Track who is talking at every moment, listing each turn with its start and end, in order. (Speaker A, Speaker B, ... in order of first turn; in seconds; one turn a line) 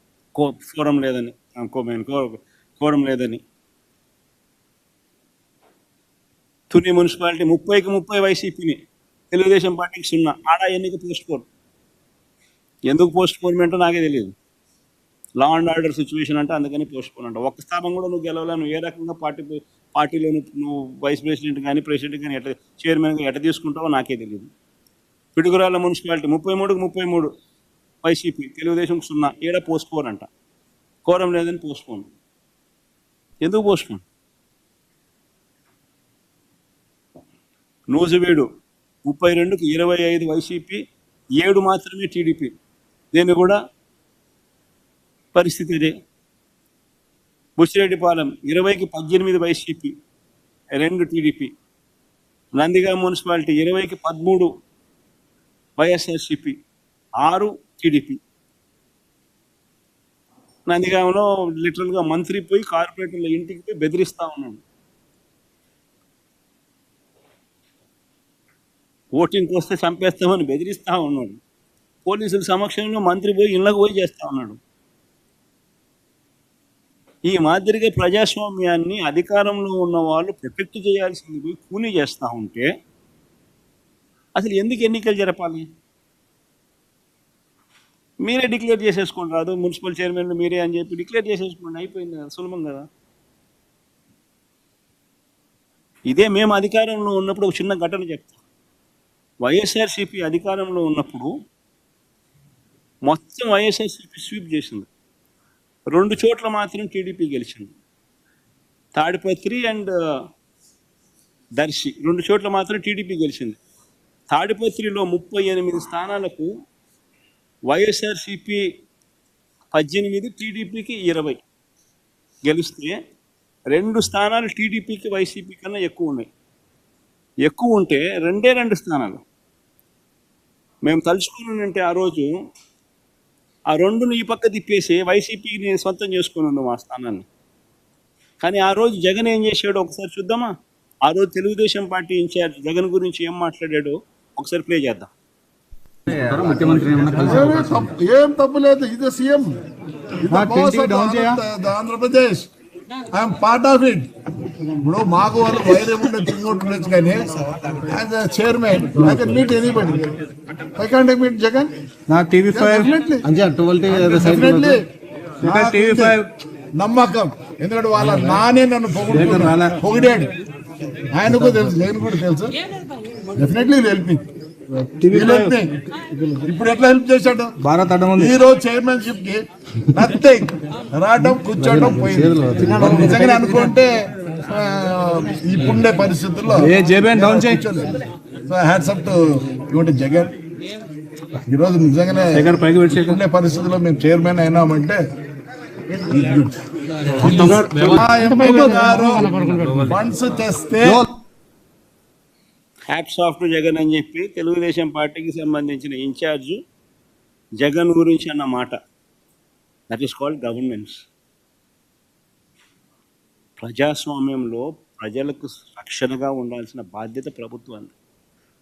Speaker A: 0.3-3.4
Speaker A: 6.7-8.8
Speaker A: 9.3-11.4
Speaker A: 12.9-14.3
Speaker A: 15.4-24.5
Speaker A: 25.4-27.3
Speaker A: 28.0-30.3
Speaker A: 31.1-32.0
Speaker A: 33.4-34.0
Speaker A: 37.9-38.5
Speaker A: 39.1-40.8
Speaker A: 41.4-42.5
Speaker A: 43.1-43.6
Speaker A: 45.4-45.9
Speaker A: 47.6-49.9
Speaker A: 50.8-51.5
Speaker A: 52.6-54.5
Speaker A: 55.8-56.6
Speaker A: 57.2-58.2
Speaker A: 60.7-64.6
Speaker A: 69.2-71.4
Speaker A: 72.1-74.6
Speaker A: 77.3-82.7
Speaker A: 84.4-85.7
Speaker A: 88.2-92.9
Speaker A: 96.1-98.4
Speaker A: 99.4-101.3
Speaker A: 103.1-104.9
Speaker A: 106.0-107.7
Speaker A: 109.0-109.9
Speaker A: 111.6-113.6
Speaker A: 114.3-116.5
Speaker A: 117.7-118.6
Speaker A: 119.7-121.4
Speaker A: 122.5-123.0
Speaker A: 123.7-126.3
Speaker A: 127.5-129.2
Speaker A: 130.9-132.3
Speaker A: 133.7-137.2
Speaker A: 138.4-140.5
Speaker A: 141.1-145.1
Speaker B: 146.1-147.8
Speaker C: 147.2-149.6
Speaker C: 150.2-152.5
Speaker B: 150.3-151.4
Speaker C: 153.1-154.1
Speaker C: 154.8-160.2
Speaker C: 160.8-161.7
Speaker B: 162.1-164.8
Speaker C: 162.5-163.2
Speaker C: 163.9-164.8
Speaker C: 165.4-166.2
Speaker B: 165.4-166.3
Speaker C: 166.8-170.3
Speaker B: 168.0-168.3
Speaker B: 169.1-169.8
Speaker C: 171.1-172.6
Speaker C: 173.4-174.2
Speaker B: 174.8-175.5
Speaker C: 175.1-175.8
Speaker C: 176.4-177.6
Speaker B: 177.6-178.3
Speaker C: 178.1-187.9
Speaker B: 181.6-183.7
Speaker B: 186.6-187.6
Speaker C: 188.5-190.3
Speaker C: 191.5-195.0
Speaker B: 192.3-193.2
Speaker C: 196.1-196.5
Speaker C: 197.2-201.1
Speaker B: 197.2-198.0
Speaker B: 200.8-201.1
Speaker A: 202.9-206.6
Speaker A: 207.6-208.8
Speaker A: 209.9-211.0
Speaker A: 213.6-217.9